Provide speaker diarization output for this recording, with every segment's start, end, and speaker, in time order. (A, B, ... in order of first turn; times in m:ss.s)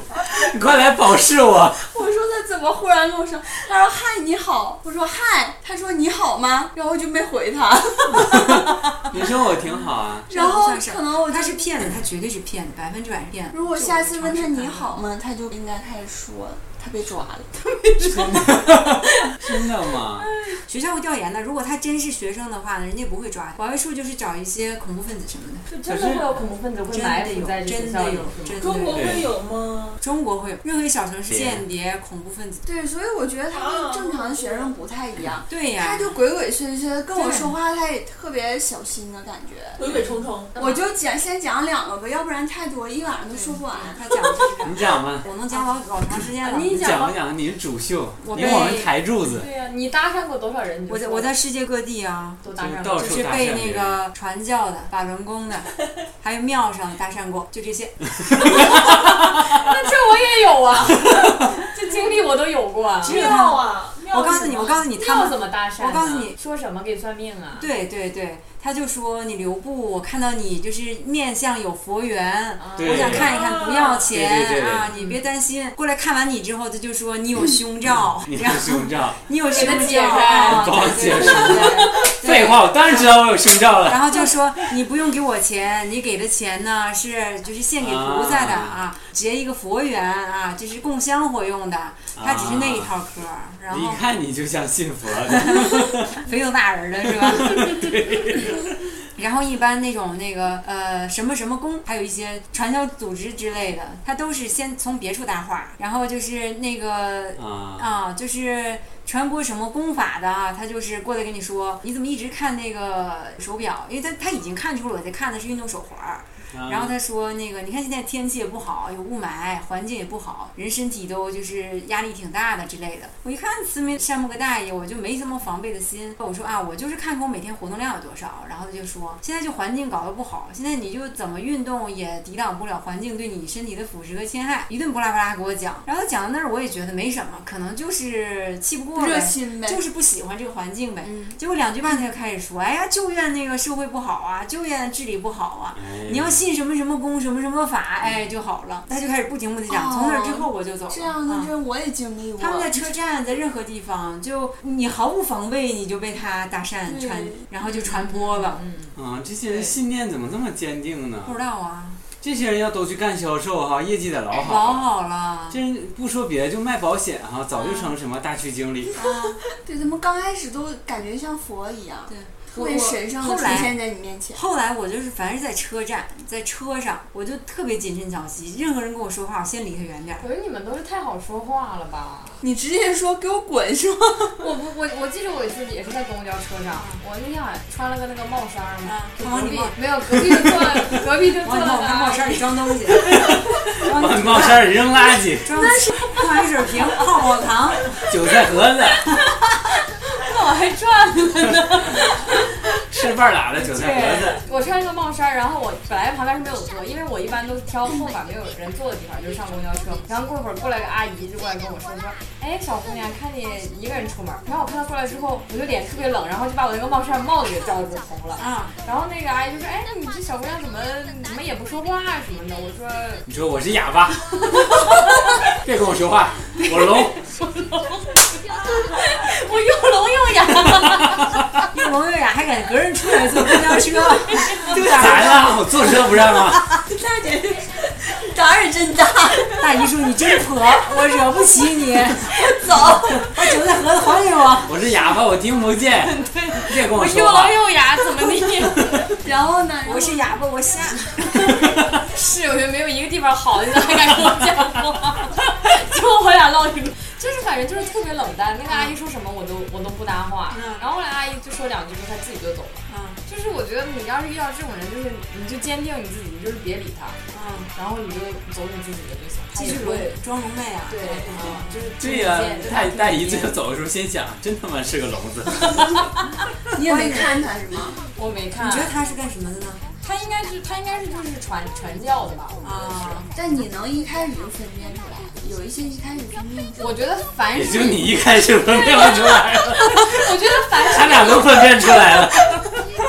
0:00.3-0:01.8 A
0:01.8-0:08.6 B
0:08.2-0:10.3 A
0:10.3-0:11.7 B
0:10.3-0:15.0 C
0:13.5-0:17.6 B
0:17.7-0:19.4 D
0:18.1-0:20.3 A
0:20.2-0:20.6 D
0:20.7-0:25.7 C
0:25.7-0:28.7 D
0:25.9-0:26.3 A
0:26.9-0:29.3 C
0:28.6-0:30.0 E
0:28.9-0:29.3 A
0:30.0-0:32.6 C
0:31.3-0:31.6 A
0:32.6-0:39.9 B
0:33.5-0:34.8 E
0:35.5-0:36.2 C
0:37.1-0:37.5 C
0:39.8-0:40.6 E
0:40.6-0:44.0 B
0:43.3-0:46.9 C
0:44.6-0:45.3 A
0:46.4-0:47.2 D
0:46.7-0:49.5 A
0:48.2-0:48.9 C
0:49.3-0:51.3 D
0:50.9-0:52.4 C
0:52.4-0:53.2 D
0:52.5-0:54.0 A
0:53.0-0:58.7 C
0:58.4-1:03.2 D
1:03.0-1:06.3 C
1:03.0-1:04.8 E
1:04.9-1:07.7 D
1:07.6-1:23.3 C
1:12.6-1:13.3 D
1:12.8-1:13.3 A
1:13.1-1:14.1 E
1:14.1-1:14.9 A
1:14.9-1:15.2 D
1:17.9-1:24.3 A
1:19.5-1:22.0 D
1:23.8-1:34.0 C
1:27.8-1:28.8 A
1:32.2-1:32.9 A
1:33.7-1:36.2 A
1:35.4-1:38.0 C
1:37.1-1:38.7 A
1:39.2-2:31.5 C
1:47.4-1:47.9 A
1:56.5-1:56.9 A
2:19.0-2:19.8 B
2:21.0-2:21.3 B
2:25.8-2:26.4 A
2:29.7-2:32.8 B
2:32.4-2:38.6 C
2:36.9-2:37.4 B
2:37.6-2:38.9 D
2:38.9-2:41.4 A
2:41.2-2:42.0 C
2:42.2-2:44.8 A
2:44.4-2:45.6 C
2:45.5-2:48.9 A
2:47.6-2:47.9 C
2:48.9-2:54.4 B
2:49.0-2:49.4 C
2:52.1-2:53.8 C
2:54.3-3:00.2 C
3:00.2-3:02.4 D
3:02.4-3:04.4 B
3:04.4-3:12.4 D
3:06.7-3:07.0 C
3:08.8-3:14.8 C
3:13.0-3:15.6 A
3:15.3-3:18.0 C
3:15.6-3:16.2 D
3:18.1-3:19.0 A
3:20.1-3:22.5 D
3:22.9-3:24.4 A
3:23.6-3:43.2 D
3:38.4-3:38.7 C
3:43.2-3:44.9 A
3:44.6-3:45.0 D
3:45.5-3:47.2 A
3:47.2-3:51.4 D
3:51.7-3:55.5 C
3:54.3-3:54.7 D
3:54.7-3:56.6 A
3:54.8-3:55.5 B
3:56.8-3:59.7 B
3:59.6-4:02.3 C
4:02.3-4:03.3 B
4:03.2-4:04.8 C
4:04.6-4:07.6 A
4:06.0-4:09.1 D
4:09.2-4:10.2 B
4:09.8-4:11.4 C
4:11.5-4:27.2 D
4:20.5-4:20.8 C
4:22.9-4:23.2 C
4:27.3-4:27.7 C
4:27.7-4:30.2 D
4:29.5-4:31.8 C
4:30.9-4:33.6 D
4:32.0-4:36.0 A
4:36.7-4:38.0 B
4:36.8-4:37.5 C
4:38.1-4:38.9 D
4:38.6-4:39.8 C
4:40.0-4:43.3 D
4:42.6-4:43.3 C
4:43.3-4:47.0 B
4:46.8-4:52.1 D
4:47.5-4:52.6 A